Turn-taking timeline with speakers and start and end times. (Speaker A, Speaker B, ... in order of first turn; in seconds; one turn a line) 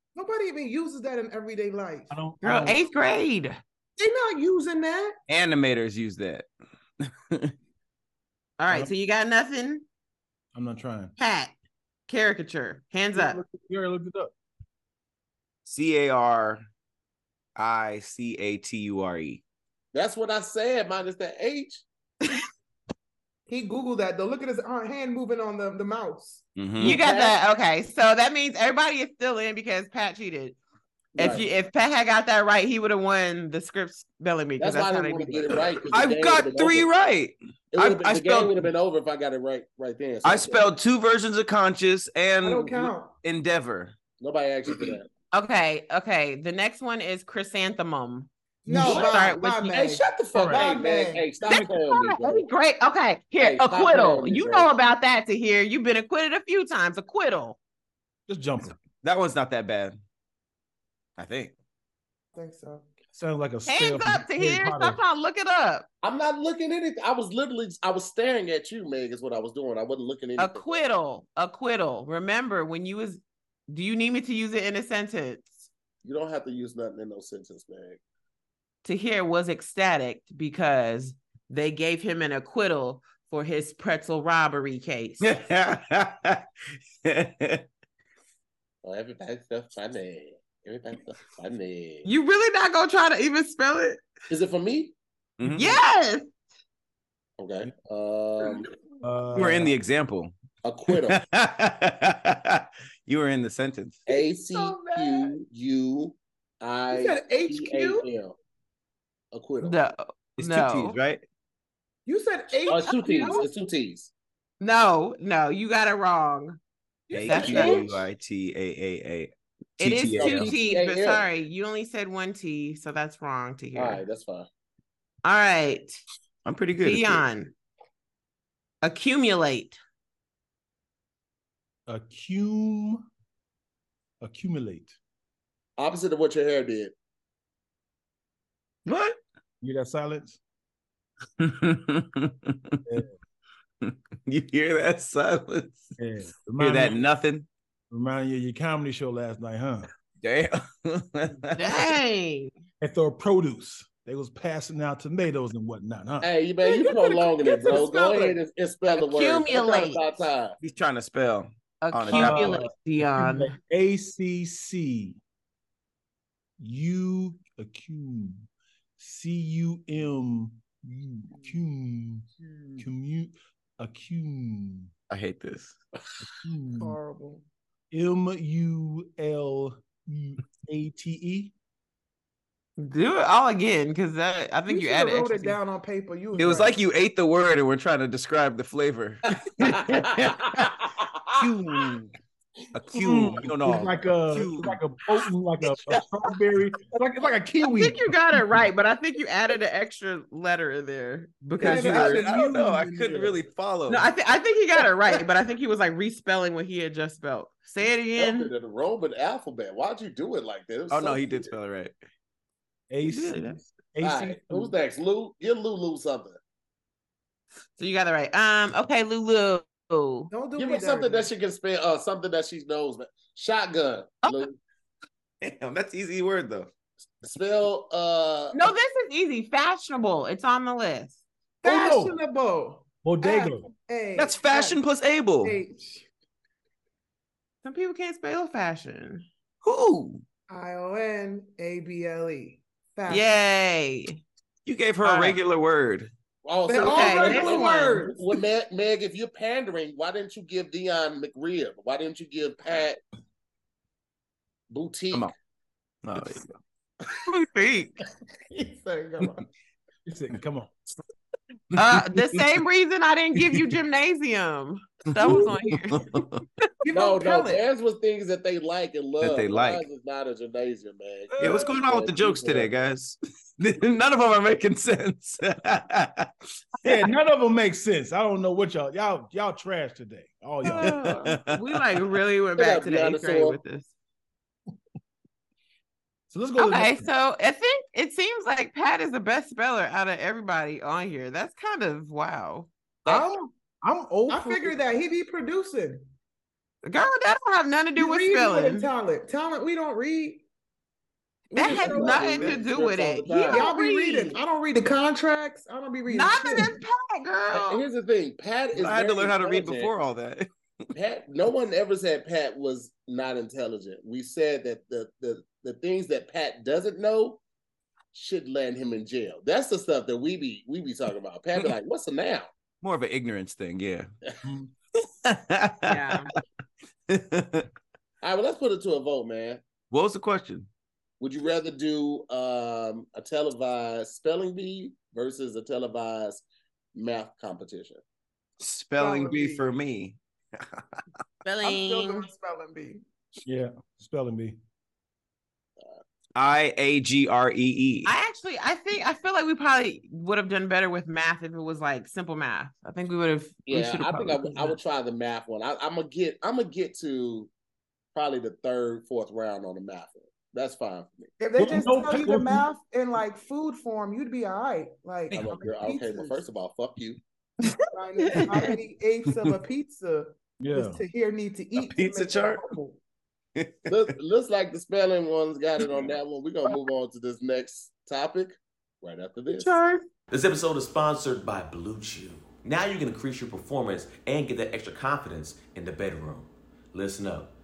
Speaker A: 0.1-2.1
Speaker B: 2.1-2.8
Speaker C: 2.4-3.6
Speaker A: 4.0-5.2
Speaker D: 5.3-6.5
Speaker D: 7.0-7.5
Speaker C: 8.6-9.8
Speaker B: 10.5-11.1
Speaker C: 11.2-11.5
Speaker C: 12.1-13.4
Speaker B: 13.1-14.3
Speaker D: 15.7-16.6
Speaker D: 17.6-19.4
Speaker E: 19.9-21.8
Speaker A: 23.5-26.4
Speaker D: 26.6-27.0
Speaker C: 26.8-30.6
Speaker E: 26.8-27.4
Speaker E: 31.2-31.4
Speaker C: 31.2-35.7
Speaker E: 34.6-36.9
Speaker D: 35.9-38.7
Speaker E: 37.7-40.7
Speaker D: 40.2-43.9
Speaker A: 42.4-43.1
Speaker E: 44.2-45.1
Speaker C: 45.3-48.3
Speaker A: 48.7-51.3
Speaker C: 48.8-49.7
Speaker E: 48.8-52.5
Speaker B: 50.4-50.7
Speaker C: 51.5-57.6
Speaker E: 53.4-54.7
Speaker B: 58.3-58.8
Speaker D: 58.9-60.0
Speaker D: 61.2-61.5
Speaker A: 62.4-62.9
Speaker B: 63.1-65.0
Speaker C: 63.7-65.9
Speaker E: 66.0-70.8
Speaker C: 70.4-75.7
Speaker E: 76.0-78.0
Speaker C: 78.8-85.3
Speaker D: 85.2-87.7
Speaker E: 88.8-92.1
Speaker C: 92.0-94.0
Speaker E: 94.3-94.9
Speaker D: 95.4-95.8
Speaker C: 95.5-96.3
Speaker E: 97.4-98.7
Speaker B: 99.0-99.8
Speaker D: 99.3-100.3
Speaker E: 100.6-101.2
Speaker D: 100.9-104.0
Speaker E: 104.1-108.4
Speaker A: 104.1-105.3
Speaker A: 106.9-108.1
Speaker E: 109.3-109.8
Speaker C: 109.6-111.0
Speaker D: 110.4-111.2
Speaker A: 112.1-113.5
Speaker E: 112.7-114.1
Speaker C: 113.0-113.5
Speaker C: 114.6-116.6
Speaker A: 117.1-117.9
Speaker D: 117.1-120.5
Speaker C: 117.3-117.9
Speaker E: 117.3-117.8
Speaker C: 119.8-124.0
Speaker E: 120.1-121.2
Speaker E: 123.8-124.5
Speaker C: 125.2-125.9
Speaker D: 126.5-127.2
Speaker C: 126.8-127.5
Speaker C: 128.8-129.8
Speaker B: 131.9-133.1
Speaker B: 134.2-134.9
Speaker E: 135.8-136.9
Speaker D: 138.8-139.2
Speaker B: 139.6-140.4
Speaker D: 141.4-142.8
Speaker B: 142.9-143.1
Speaker D: 143.8-145.9
Speaker B: 146.0-147.0
Speaker D: 146.6-147.5
Speaker B: 147.9-149.9
Speaker D: 150.2-152.0
Speaker C: 151.6-152.5
Speaker B: 152.8-156.3
Speaker E: 156.2-160.6
Speaker A: 156.6-158.4
Speaker C: 158.9-160.0
Speaker D: 160.6-162.7
Speaker C: 161.8-163.6
Speaker B: 162.1-165.2
Speaker B: 166.6-168.5
Speaker B: 169.0-172.3
Speaker B: 172.8-174.9
Speaker D: 175.1-175.8
Speaker B: 176.4-177.0
Speaker A: 176.8-177.4
Speaker B: 177.9-181.5
Speaker C: 182.8-185.6
Speaker A: 184.7-186.7
Speaker D: 186.4-190.7
Speaker E: 189.6-191.4
Speaker D: 191.4-192.1
Speaker D: 192.8-194.8
Speaker B: 192.9-198.4
Speaker C: 197.6-202.2
Speaker B: 201.6-203.4
Speaker D: 201.6-204.1
Speaker A: 201.7-202.5
Speaker C: 203.9-208.5
Speaker E: 208.2-211.5
Speaker D: 210.9-212.0
Speaker B: 212.9-214.7
Speaker C: 213.1-213.6
Speaker E: 214.0-216.4
Speaker C: 217.8-220.3
Speaker A: 220.3-221.3
Speaker E: 220.6-224.6
Speaker D: 225.4-226.7
Speaker E: 227.2-228.6
Speaker C: 228.5-231.2
Speaker B: 231.6-232.2
Speaker A: 231.6-234.8
Speaker B: 233.0-233.7
Speaker D: 234.2-235.6
Speaker A: 235.4-236.1
Speaker C: 237.6-239.2
Speaker D: 239.6-240.2
Speaker A: 240.5-243.3
Speaker C: 243.1-244.2
Speaker D: 244.7-246.1
Speaker E: 246.4-253.0
Speaker A: 246.7-248.2
Speaker C: 246.8-248.0
Speaker E: 254.7-255.3
Speaker D: 256.0-256.6
Speaker C: 257.1-257.9
Speaker A: 258.5-259.5
Speaker B: 260.1-260.7
Speaker C: 261.8-266.1
Speaker D: 261.8-262.6
Speaker D: 265.1-266.4
Speaker A: 266.8-267.6
Speaker E: 266.9-272.7
Speaker D: 269.2-269.8
Speaker B: 271.3-271.7
Speaker D: 271.4-276.3
Speaker B: 276.8-281.2
Speaker C: 280.6-283.9
Speaker D: 280.8-282.0
Speaker E: 282.6-283.6
Speaker B: 286.3-287.1
Speaker C: 286.6-292.7
Speaker B: 293.1-294.8
Speaker A: 294.3-296.1
Speaker C: 296.8-298.9
Speaker A: 298.0-300.4
Speaker E: 301.5-303.7
Speaker A: 301.5-302.6
Speaker C: 301.5-304.4
Speaker A: 303.5-306.8
Speaker C: 306.1-307.8
Speaker E: 307.5-309.9
Speaker D: 308.7-310.5
Speaker E: 310.9-317.4
Speaker E: 318.1-322.5
Speaker D: 322.8-324.1
Speaker B: 324.4-324.7
Speaker D: 325.1-326.2
Speaker C: 325.9-326.3
Speaker D: 327.1-327.7
Speaker E: 328.2-329.6
Speaker D: 329.9-330.7
Speaker E: 331.2-336.4
Speaker E: 336.9-338.0
Speaker D: 338.6-340.8
Speaker A: 339.0-339.7
Speaker C: 341.4-342.3
Speaker A: 341.6-343.0
Speaker B: 343.4-344.6
Speaker D: 346.4-348.1
Speaker C: 348.1-354.7
Speaker E: 353.7-357.5
Speaker E: 358.1-361.3
Speaker A: 361.4-366.4
Speaker B: 361.6-362.6
Speaker E: 365.3-367.2
Speaker C: 367.7-368.8
Speaker A: 367.9-373.0
Speaker B: 370.6-371.0
Speaker D: 371.8-372.6
Speaker D: 373.6-374.1
Speaker E: 373.9-379.8
Speaker C: 379.6-380.1
Speaker F: 380.3-387.5